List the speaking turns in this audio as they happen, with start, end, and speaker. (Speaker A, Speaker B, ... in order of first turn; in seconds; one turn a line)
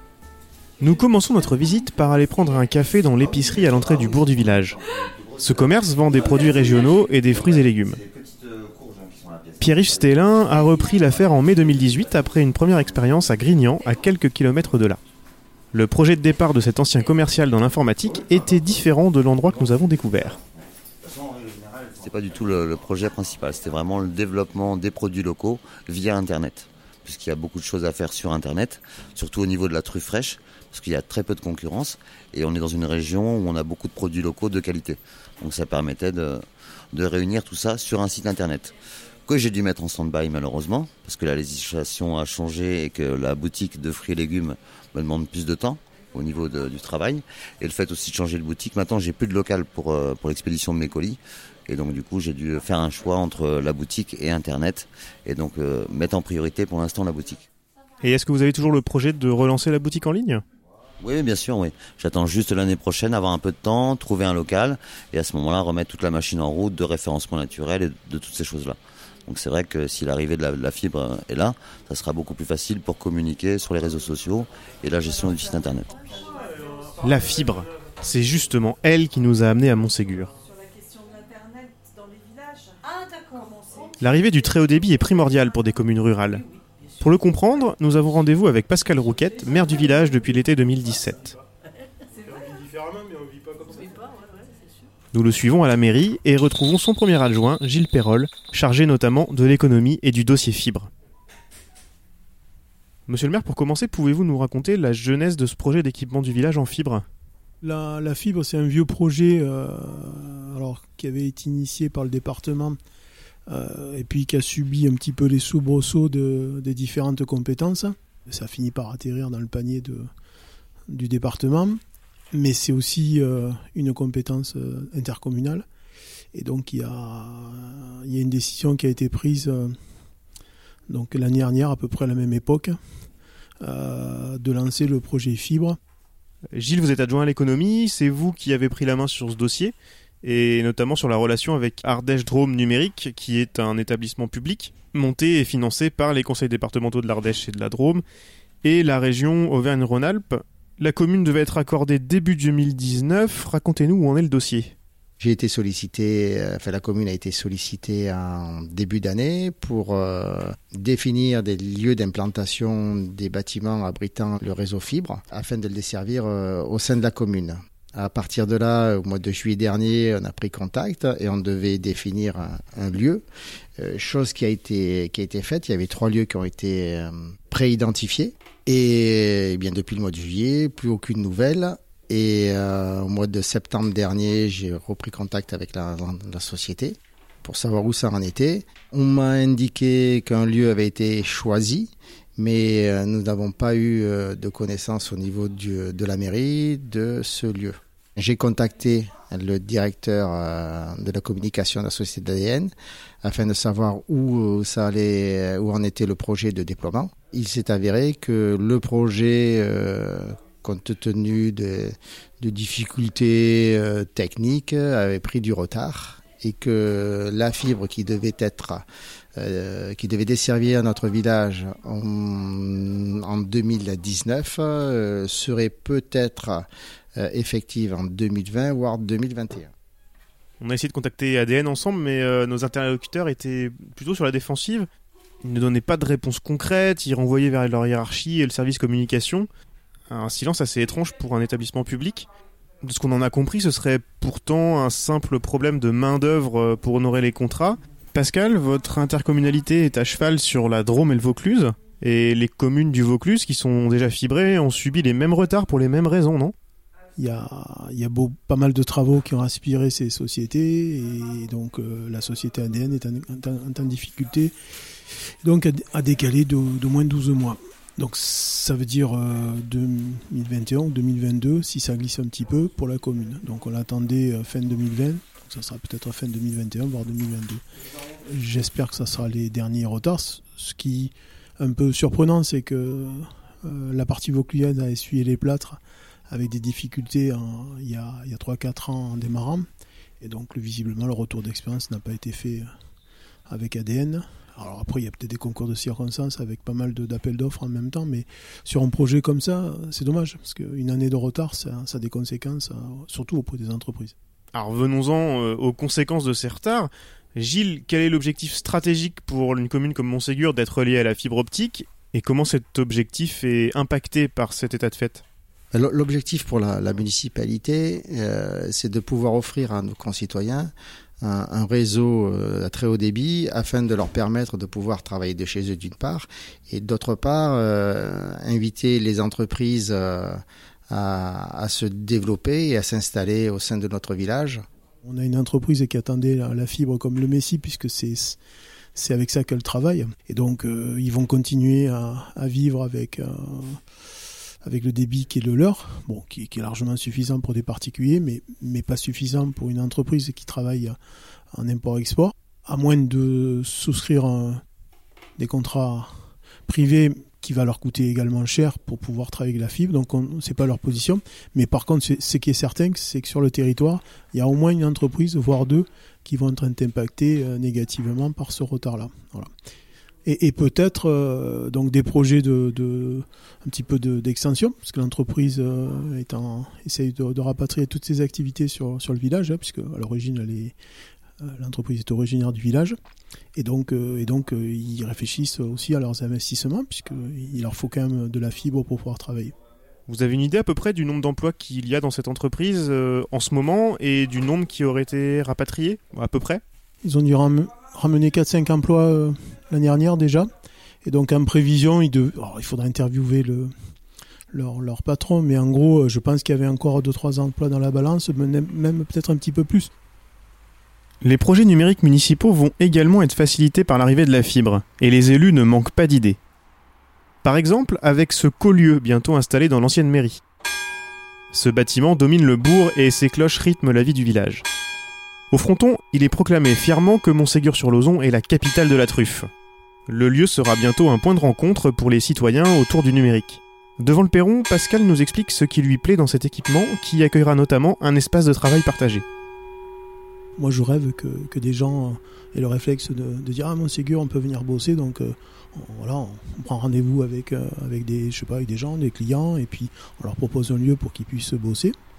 Speaker A: 0.8-4.8
Speaker B: 3.7-4.6
Speaker B: 5.2-5.7
Speaker A: 5.4-8.0
Speaker B: 6.5-10.0
Speaker A: 9.6-15.0
Speaker A: 15.7-20.4
Speaker B: 21.0-38.7
Speaker B: 39.3-57.4
Speaker A: 58.0-60.4
Speaker B: 61.0-75.9
Speaker A: 77.0-80.3
Speaker A: 84.0-86.4
Speaker A: 87.0-91.4
Speaker C: 92.4-93.9
Speaker A: 95.1-100.9
Speaker A: 103.1-107.0
Speaker C: 107.6-112.8
Speaker C: 113.5-120.1
Speaker C: 120.9-121.8
Speaker C: 122.3-125.7
Speaker C: 126.3-129.7
Speaker C: 130.9-132.8
Speaker C: 133.6-135.8
Speaker A: 136.5-148.0
Speaker A: 148.6-154.7
Speaker D: 155.2-173.2
Speaker D: 173.8-202.7
Speaker D: 203.2-218.8
Speaker D: 219.4-229.7
Speaker A: 230.6-234.9
Speaker A: 235.4-239.5
Speaker A: 240.1-242.3
Speaker A: 242.8-256.5
Speaker C: 257.1-264.5
Speaker C: 265.4-277.6
Speaker C: 278.3-289.6
Speaker C: 290.2-292.7
Speaker C: 293.5-304.1
Speaker A: 304.5-315.2
Speaker D: 315.7-334.6
Speaker C: 335.0-338.4
Speaker C: 338.9-343.8
Speaker C: 344.6-351.0
Speaker C: 351.5-354.6
Speaker C: 355.4-356.1
Speaker C: 356.7-369.5
Speaker C: 370.2-380.7
Speaker C: 381.4-382.9
Speaker C: 383.6-389.5
Speaker A: 390.1-396.6
Speaker C: 397.0-400.5
Speaker C: 401.0-403.7
Speaker C: 404.5-409.9
Speaker A: 411.2-416.4
Speaker A: 417.4-420.4
Speaker A: 421.5-424.6
Speaker A: 425.5-429.5
Speaker A: 430.1-439.2
Speaker C: 440.6-451.9